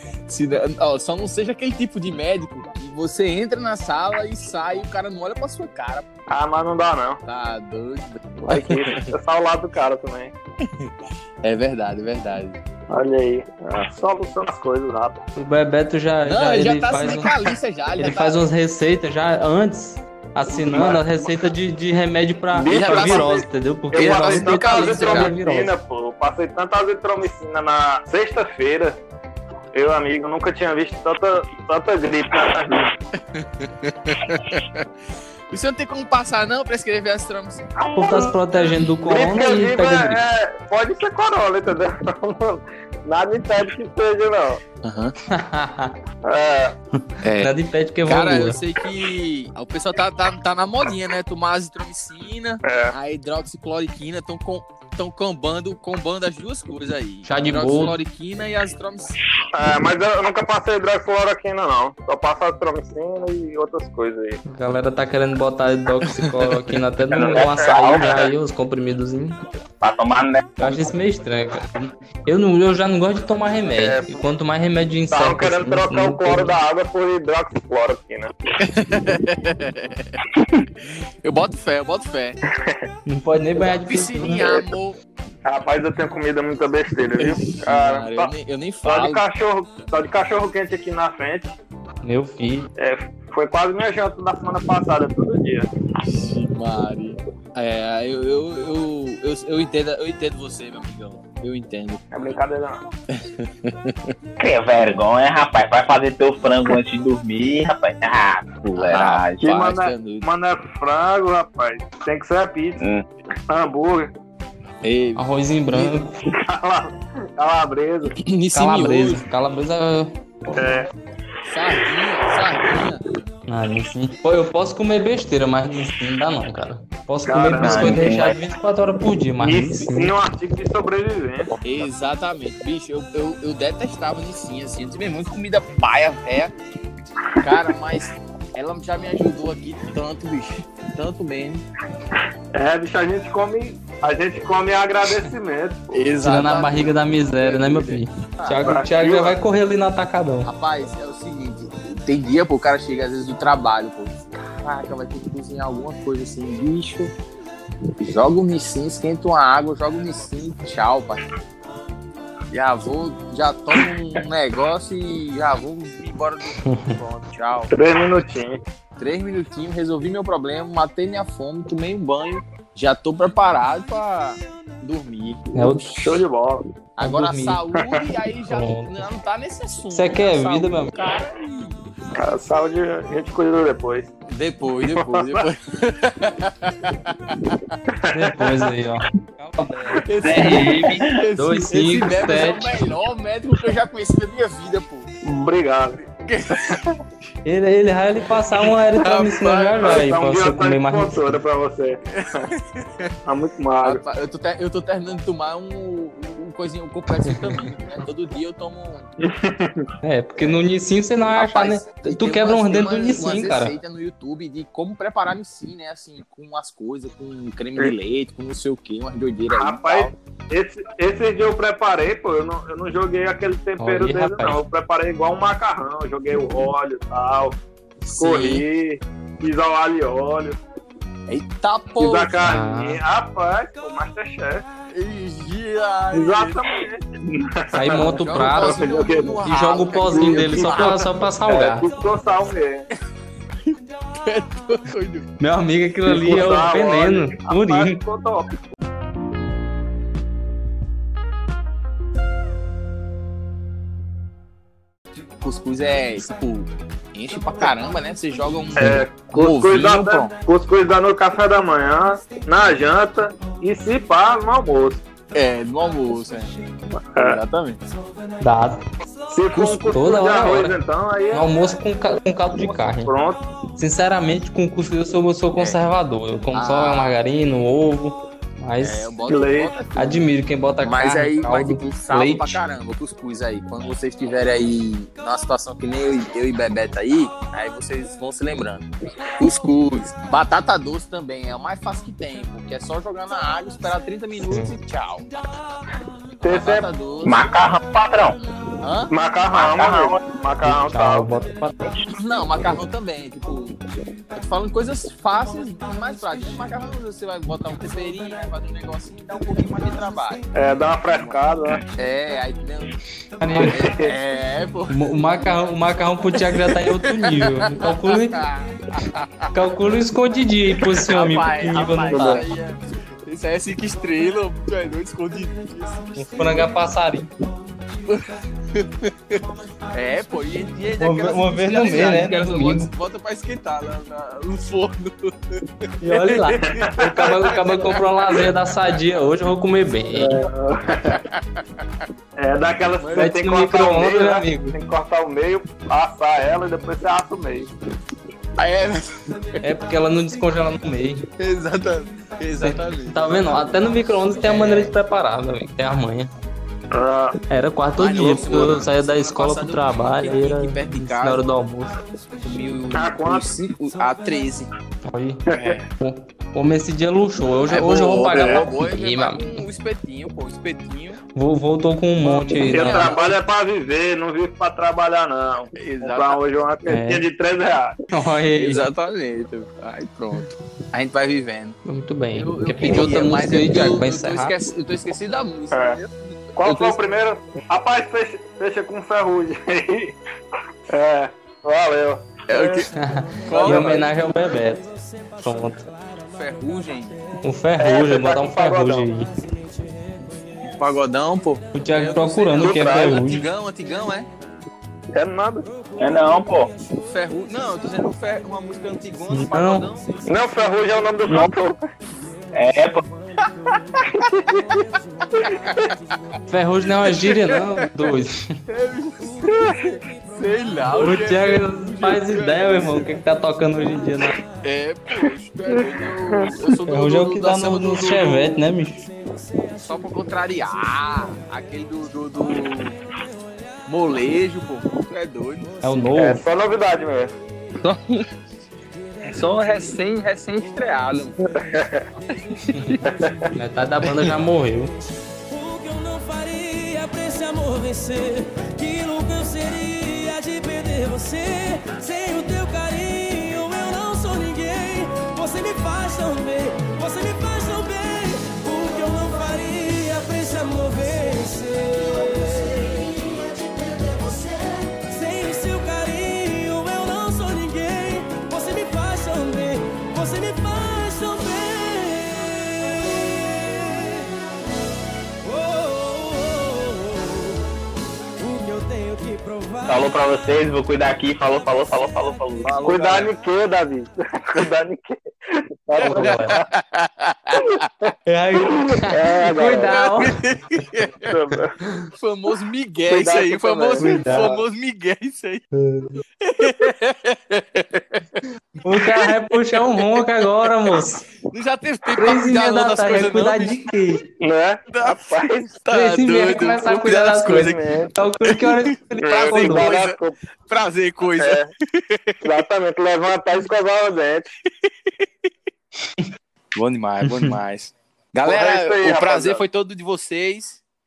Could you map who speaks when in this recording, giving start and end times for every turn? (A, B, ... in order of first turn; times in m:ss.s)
0:00.3-0:06.1 A
0:06.3-0:07.2 B
0:07.3-0:09.1 A
0:08.4-0:10.3 B
0:10.6-0:10.9 A
0:11.4-0:12.6 A
0:12.9-0:15.2 B
0:15.4-0:17.4 C
0:16.3-0:18.4 A
0:18.0-0:25.7 C
0:20.6-0:21.0 B
0:22.5-0:29.0 B
0:22.7-0:23.4 A
0:24.0-0:25.4 A
0:29.7-0:32.9 B
0:33.3-0:34.9 A
0:35.5-0:37.7 A
0:37.8-0:38.3 B
0:38.0-0:40.2 C
0:39.1-0:44.6 B
0:44.8-0:45.2 A
0:45.3-0:46.0 C
0:46.2-0:46.8 B
0:47.2-0:47.5 A
0:47.4-0:48.6 C
0:48.1-0:59.2 A
0:52.6-0:52.9 B
0:57.3-0:58.0 C
0:59.5-1:04.4 B
1:04.5-1:09.4 C
1:06.1-1:06.6 A
1:07.1-1:08.3 D
1:07.1-1:08.2 B
1:09.8-1:10.7 D
1:10.6-1:16.6 C
1:13.8-1:14.1 B
1:15.1-1:18.3 B
1:18.6-1:20.2 A
1:21.2-1:22.4 A
1:22.5-1:22.8 B
1:23.1-1:24.7 C
1:23.6-1:25.0 A
1:25.5-1:28.3 B
1:27.2-1:29.2 A
1:28.8-1:31.5 B
1:32.0-1:32.7 C
1:32.8-1:35.7 B
1:36.0-1:42.0 A
1:42.1-1:42.8 B
1:43.1-1:44.1 A
1:44.4-1:49.6 D
1:48.8-1:50.2 A
1:49.4-1:52.8 B
1:52.8-1:53.1 D
1:53.5-1:54.1 B
1:54.8-1:55.3 A
1:55.2-1:56.1 C
1:55.7-1:58.2 B
1:58.2-1:59.2 A
1:58.5-2:00.6 C
2:00.6-2:00.9 B
2:01.5-2:03.2 A
2:03.5-2:10.1 C
2:07.3-2:08.0 B
2:07.6-2:08.4 D
2:09.4-2:11.5 B
2:11.6-2:16.5 A
2:17.4-2:21.6 A
2:22.5-2:26.0 B
2:25.9-2:28.8 A
2:26.2-2:30.5 C
2:28.6-2:29.4 B
2:30.4-2:37.1 A
2:38.0-2:41.2 A
2:42.5-2:47.7 A
2:46.6-2:47.0 C
2:47.7-2:48.6 B
2:49.0-2:55.5 A
2:55.5-2:56.2 C
2:55.6-2:56.6 B
2:57.0-3:01.8 A
2:57.0-2:57.6 C
2:58.5-2:59.0 C
2:59.9-3:01.0 C
3:02.2-3:04.1 B
3:04.3-3:07.6 A
3:04.9-3:05.5 B
3:08.1-3:12.8 C
3:08.2-3:08.7 B
3:10.0-3:15.1 A
3:10.2-3:11.2 D
3:15.2-3:16.0 B
3:16.0-3:16.8 A
3:16.6-3:16.8 B
3:17.4-3:21.4 C
3:18.6-3:20.1 A
3:19.8-3:22.4 B
3:22.1-3:23.2 A
3:23.3-3:24.0 B
3:23.8-3:29.1 A
3:27.3-3:27.6 C
3:29.2-3:29.9 B
3:30.0-3:33.8 C
3:31.3-3:40.1 A
3:39.5-3:47.6 B
3:43.8-3:44.6 C
3:48.0-3:48.7 A
3:48.2-3:50.6 B
3:51.3-3:52.4 A
3:52.0-3:54.6 B
3:52.4-3:53.0 C
3:54.9-3:56.6 A
3:56.1-3:59.4 B
3:57.7-3:58.8 C
3:58.0-4:01.2 A
3:59.4-4:01.9 C
4:00.1-4:02.9 B
4:03.7-4:05.3 A
4:05.4-4:08.0 C
4:06.1-4:08.5 B
4:15.4-4:20.3 A
4:18.8-4:25.0 B
4:25.3-4:26.5 A
4:27.0-4:27.4 B
4:27.2-4:27.8 A
4:28.4-4:28.8 C
4:29.3-4:31.5 B
4:29.5-4:29.8 A
4:29.9-4:30.8 C
4:31.3-4:33.1 C
4:33.0-4:33.4 B
4:33.8-4:39.1 C
4:36.5-4:37.2 A
4:38.8-4:40.3 A
4:39.3-4:39.7 B
4:40.0-4:42.6 C
4:40.8-4:55.3 A
4:54.5-4:54.7 C
4:56.4-4:56.9 B
4:56.4-4:57.4 A
4:57.2-4:58.4 D
4:58.8-4:59.1 A
4:59.1-5:01.3 B
4:59.5-5:00.2 D
5:00.6-5:01.9 C
5:02.1-5:03.8 A
5:04.3-5:10.4 A
5:10.5-5:11.8 B
5:11.1-5:11.4 A
5:11.9-5:13.0 A
5:13.4-5:13.8 C
5:13.6-5:14.1 B
5:13.6-5:15.2 A
5:14.9-5:18.4 C
5:16.5-5:19.5 A
5:19.5-5:22.4 C
5:20.9-5:26.7 A
5:22.1-5:22.5 B
5:26.2-5:27.3 C
5:28.0-5:38.5 A
5:31.0-5:32.9 C
5:36.0-5:40.4 C
5:36.6-5:36.9 B
5:40.1-5:41.2 B
5:42.4-5:47.7 B
5:43.0-5:43.3 A
5:43.2-5:44.8 C
5:48.6-5:49.6 A
5:49.6-5:51.3 C
5:51.4-5:54.9 A
5:52.6-5:56.3 C
5:56.9-5:57.4 B
5:57.5-6:02.0 C
5:58.0-6:01.4 A
5:58.3-5:58.8 B
6:02.3-6:04.7 A
6:02.9-6:03.5 B
6:05.1-6:05.4 C
6:05.5-6:05.8 B
6:05.5-6:05.8 A
6:06.0-6:09.6 C
6:07.7-6:11.2 A
6:08.3-6:08.6 B
6:11.4-6:13.2 C
6:12.2-6:13.4 A
6:12.7-6:18.0 B
6:15.8-6:16.4 A
6:16.9-6:17.2 C
6:18.1-6:18.9 C
6:18.6-6:21.8 A
6:21.9-6:24.6 C
6:22.4-6:27.0 A
6:25.7-6:26.0 B
6:26.6-6:30.2 B
6:30.9-6:32.9 B
6:32.5-6:34.1 A
6:33.0-6:34.9 C
6:33.5-6:34.0 B
6:35.4-6:35.9 C
6:36.2-6:37.2 A
6:37.4-6:39.3 C
6:37.8-6:39.1 B
6:40.7-6:44.3 A
6:41.7-6:43.5 C
6:42.6-6:43.2 B
6:45.1-6:45.7 B
6:46.0-6:46.7 D
6:46.9-6:50.2 A
6:49.3-6:49.9 C
6:50.2-6:51.8 B
6:51.3-6:51.5 D
6:52.5-6:53.0 D
6:53.4-6:53.8 A
6:54.0-6:54.8 B
6:55.4-6:55.9 B
6:55.4-6:56.0 A
6:56.5-6:58.5 C
6:57.0-6:57.5 A
6:58.7-7:03.1 A
7:00.9-7:04.4 C
7:04.6-7:08.6 A
7:06.3-7:06.6 B
7:06.9-7:09.0 C
7:09.8-7:13.0 A
7:13.9-7:15.8 A
7:15.8-7:16.4 C
7:16.2-7:17.3 B
7:17.8-7:18.3 A
7:19.3-7:21.4 A
7:21.4-7:22.1 B
7:22.5-7:23.0 A
7:23.0-7:23.5 B
7:23.5-7:24.9 C
7:25.5-7:43.4 E
7:45.0-7:54.3 E
7:55.4-7:57.6 E
7:58.4-8:00.2 E
7:59.9-8:03.1 D
8:02.6-8:03.3 A
8:02.8-8:06.7 B
8:06.0-8:06.6 C
8:06.0-8:07.8 A
8:07.8-8:10.0 B
8:08.3-8:10.4 C
8:09.8-8:11.3 A
8:11.3-8:11.8 B
8:12.2-8:15.6 A
8:13.1-8:14.6 B
8:14.0-8:14.6 C
8:15.7-8:16.2 C
8:16.4-8:18.4 A
8:18.8-8:21.3 C
8:19.7-8:20.3 A
8:21.5-8:23.8 A
8:22.2-8:24.3 C
8:24.4-8:25.7 B
8:24.9-8:27.8 A
8:25.9-8:30.0 C
8:27.5-8:28.2 B
8:28.6-8:32.4 A
8:29.2-8:30.4 B
8:31.4-8:31.7 B
8:32.4-8:34.5 B
8:36.8-8:40.8 A
8:37.3-8:37.5 C
8:38.4-8:39.6 B